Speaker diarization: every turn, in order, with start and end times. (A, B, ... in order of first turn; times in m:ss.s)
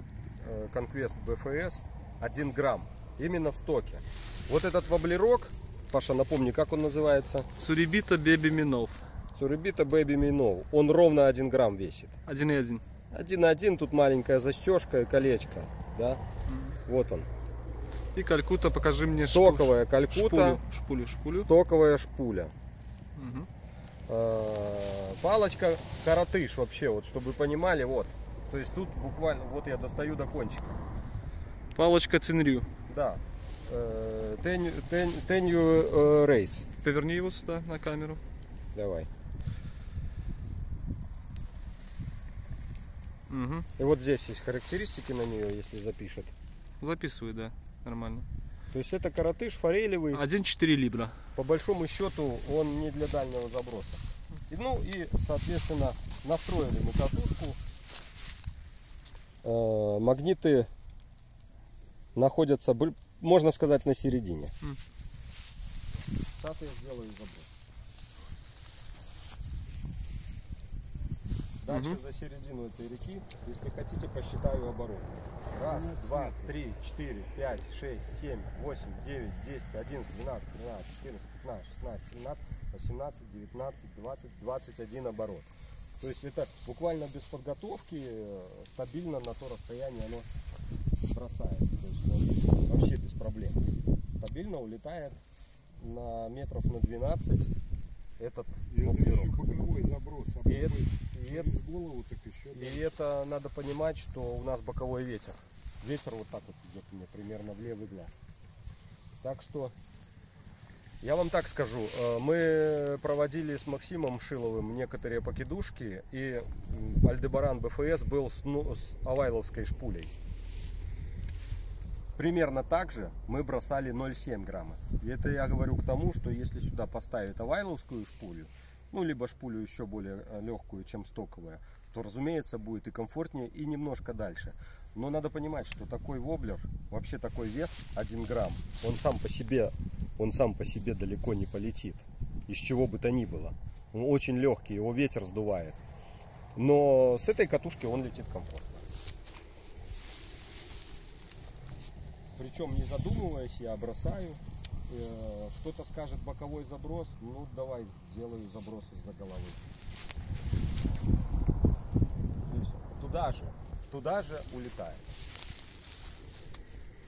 0:00.4-0:07.5 A
0:07.6-0:09.1 B
0:09.4-0:12.2 A
0:12.2-0:12.8 B
0:13.1-0:16.2 A
0:16.5-0:16.8 B
0:16.8-0:17.3 A
0:18.1-0:21.5 B
0:19.2-0:20.6 A
0:21.3-0:22.5 A
0:23.2-0:23.5 B
0:24.1-0:30.8 A
0:31.7-0:32.7 B
0:32.9-0:36.6 A
0:36.8-0:38.2 B
0:38.7-0:39.1 A
0:43.3-0:43.7 B
0:43.8-0:46.3 A
0:46.8-0:48.3 B
0:48.7-0:50.2 A
0:50.1-0:51.2 B
0:51.3-0:57.6 A
0:59.4-1:00.7 A
1:02.2-1:04.5 A
1:06.4-1:07.5 A
1:11.6-1:30.3 A
1:11.7-1:12.0 B
1:15.6-1:16.5 C
1:31.0-1:35.2 A
1:35.8-1:37.5 A
1:38.2-1:39.4 A
1:38.7-1:42.9 C
1:40.4-1:41.5 A
1:42.5-1:48.2 A
1:49.2-1:49.7 A
1:51.0-2:00.1 A
2:02.2-2:25.8 A
2:26.6-2:28.8 A
2:32.4-2:39.6 A
2:42.5-2:45.1 A